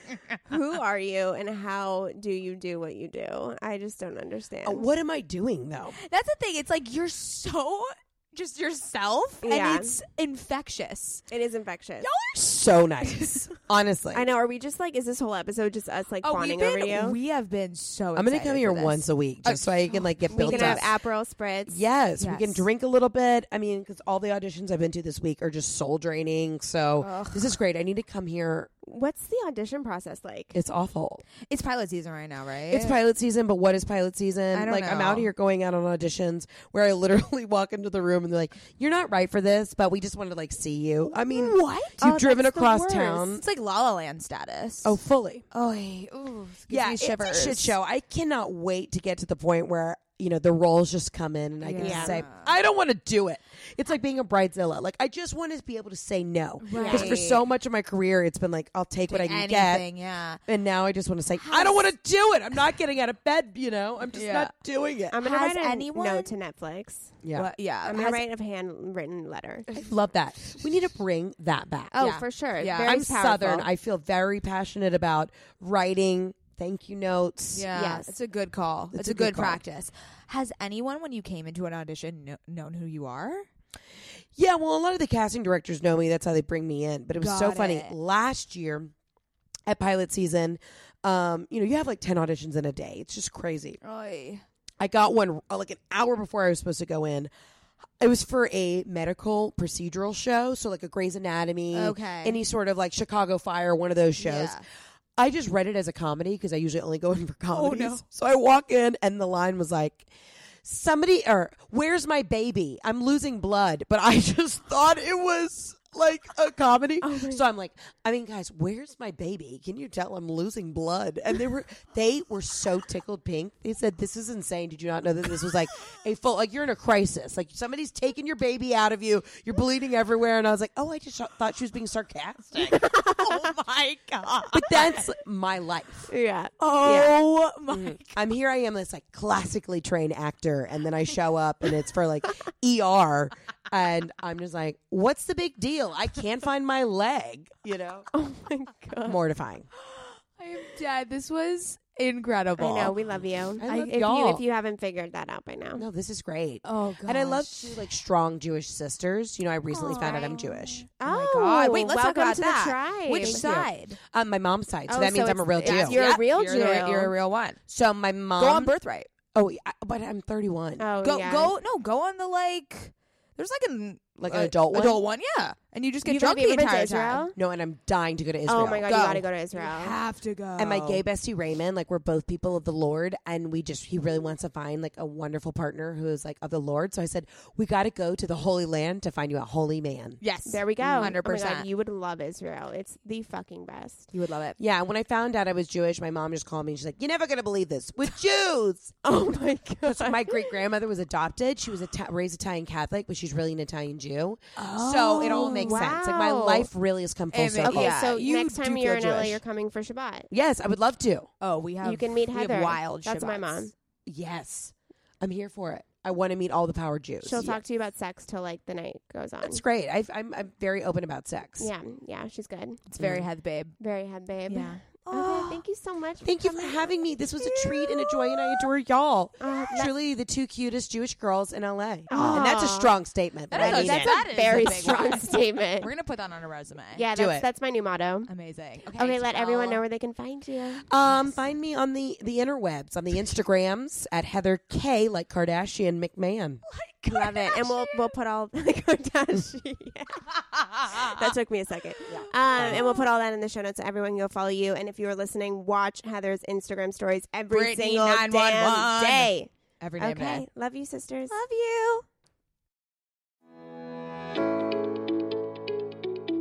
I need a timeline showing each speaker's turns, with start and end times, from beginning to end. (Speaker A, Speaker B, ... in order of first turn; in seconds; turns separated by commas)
Speaker A: 0.5-4.9, Speaker B: 4.6-6.0, Speaker C: 6.0-11.2, Speaker A: 9.4-10.0, Speaker A: 11.3-12.1, Speaker C: 12.0-13.5, Speaker B: 12.5-14.3, Speaker A: 14.1-17.2, Speaker C: 16.2-20.8, Speaker B: 18.1-20.9, Speaker A: 20.3-21.8, Speaker B: 21.7-28.7, Speaker C: 22.2-22.6, Speaker C: 27.0-27.6, Speaker A: 28.8-30.6, Speaker B: 30.5-31.2, Speaker C: 31.5-33.0, Speaker B: 32.7-43.4, Speaker C: 34.5-35.3, Speaker C: 41.1-45.0, Speaker B: 44.8-45.5, Speaker C: 45.5-47.7, Speaker B: 46.7-59.9, Speaker C: 51.6-52.5, Speaker A: 51.8-52.2, Speaker C: 56.6-57.2, Speaker A: 56.7-57.4, Speaker C: 59.1-60.4, Speaker B: 60.5-65.2, Speaker C: 61.4-61.8, Speaker C: 64.1-64.5, Speaker A: 65.1-67.2, Speaker C: 65.2-66.3, Speaker B: 67.2-68.0, Speaker C: 67.3-68.2, Speaker A: 67.8-69.8, Speaker B: 69.7-72.0, Speaker A: 71.9-73.7, Speaker C: 72.0-73.0, Speaker B: 72.8-77.7, Speaker C: 77.5-83.5, Speaker A: 77.7-78.1, Speaker B: 78.9-79.6, Speaker B: 84.4-88.9, Speaker C: 87.2-88.0, Speaker B: 89.7-93.8, Speaker C: 93.8-94.5, Speaker B: 94.8-97.3, Speaker B: 98.0-104.6, Speaker C: 101.7-102.4, Speaker C: 104.2-104.6, Speaker B: 105.2-110.1, Speaker C: 107.5-108.0, Speaker B: 110.6-132.8, Speaker A: 117.0-117.5, Speaker C: 132.7-135.1, Speaker B: 134.5-136.1, Speaker A: 136.1-137.1, Speaker C: 136.6-138.2, Speaker B: 137.7-148.1, Speaker A: 148.1-149.2, Speaker B: 149.1-149.7, Speaker C: 149.7-153.0, Speaker A: 152.6-155.8, Speaker B: 153.6-154.4, Speaker B: 155.8-160.9, Speaker C: 156.6-157.9, Speaker C: 159.8-164.0, Speaker A: 159.8-160.3, Speaker A: 161.0-163.6, Speaker B: 163.2-166.0, Speaker A: 164.9-167.1, Speaker C: 164.9-167.6, Speaker B: 167.7-168.7, Speaker C: 168.4-169.1, Speaker B: 169.3-170.9, Speaker A: 170.8-171.5, Speaker C: 171.0-177.3, Speaker B: 174.2-175.0, Speaker A: 176.1-177.3, Speaker B: 177.4-179.1, Speaker A: 178.5-179.9, Speaker C: 178.9-181.0, Speaker B: 180.6-190.2, Speaker C: 190.2-191.7, Speaker A: 190.4-194.1, Speaker B: 190.8-191.1, Speaker C: 194.1-194.6, Speaker B: 194.6-199.0, Speaker A: 199.0-200.5, Speaker B: 199.8-208.1, Speaker C: 204.6-206.0, Speaker A: 205.2-206.7, Speaker C: 207.3-209.4, Speaker A: 207.6-210.3, Speaker B: 210.3-211.3, Speaker C: 211.4-213.7, Speaker A: 211.8-213.7, Speaker B: 214.1-217.6, Speaker A: 217.2-219.6, Speaker B: 219.4-221.7, Speaker A: 221.6-222.8, Speaker C: 222.9-223.8, Speaker B: 223.0-223.3, Speaker A: 223.8-226.9, Speaker C: 224.5-225.6, Speaker B: 226.2-235.2, Speaker C: 227.7-228.0, Speaker A: 229.4-229.9, Speaker C: 232.1-232.4, Speaker A: 232.1-232.9, Speaker C: 233.5-237.1, Speaker A: 233.5-235.9, Speaker A: 236.9-238.3, Speaker B: 237.2-237.4, Speaker C: 238.3-239.8, Speaker A: 238.9-240.9, Speaker B: 240.9-246.6, Speaker C: 246.7-248.1, Speaker A: 247.1-261.4, Speaker C: 250.3-251.3, Speaker C: 252.1-253.0, Speaker B: 252.1-252.8, Speaker C: 257.5-260.4, Speaker C: 261.3-262.1